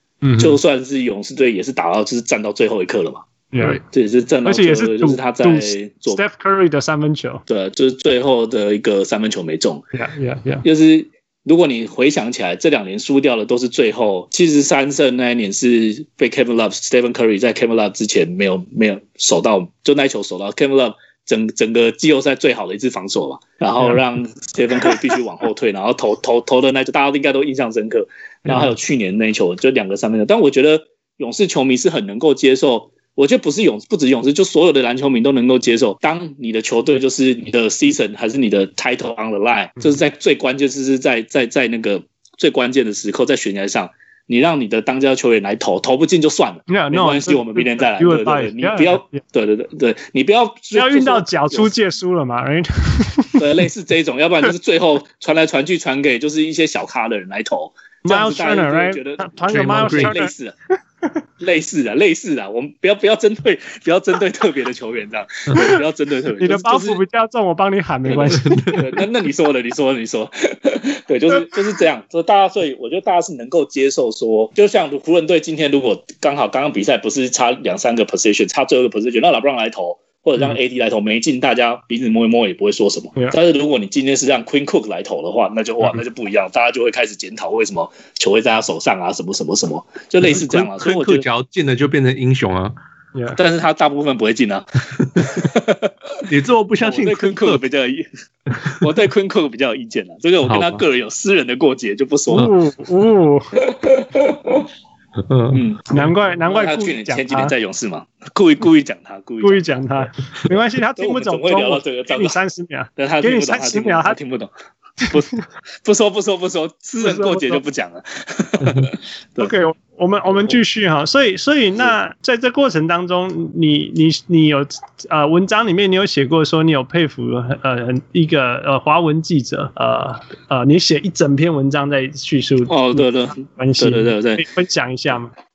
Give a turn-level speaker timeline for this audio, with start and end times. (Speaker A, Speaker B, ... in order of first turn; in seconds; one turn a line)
Speaker A: 0.2-0.6
Speaker B: 0.4-6.2
Speaker A: 3.5-3.8
Speaker A: 4.5-7.4
Speaker B: 7.5-9.8
Speaker A: 9.9-10.7
Speaker B: 10.6-51.7
Speaker A: 46.7-49.2
Speaker A: 50.8-53.4
Speaker B: 53.4-60.5
Speaker A: 58.0-60.3
Speaker C: 59.5-60.2
Speaker B: 61.4-67.0
Speaker A: 66.4-68.8
Speaker B: 68.1-91.3
Speaker C: 68.4-68.8
Speaker C: 90.3-92.7
Speaker B: 93.3-96.2
Speaker C: 96.3-97.6
Speaker B: 96.8-102.5
Speaker C: 100.5-100.8
Speaker A: 102.3-103.6
Speaker B: 103.6-104.7
Speaker C: 105.3-105.6
Speaker B: 105.5-109.7
Speaker A: 105.9-107.5
Speaker A: 109.4-114.2
Speaker B: 111.0-112.4
Speaker B: 113.0-115.3
Speaker B: 115.8-119.5
Speaker A: 117.0-117.6
Speaker A: 119.4-135.3
Speaker B: 132.7-134.5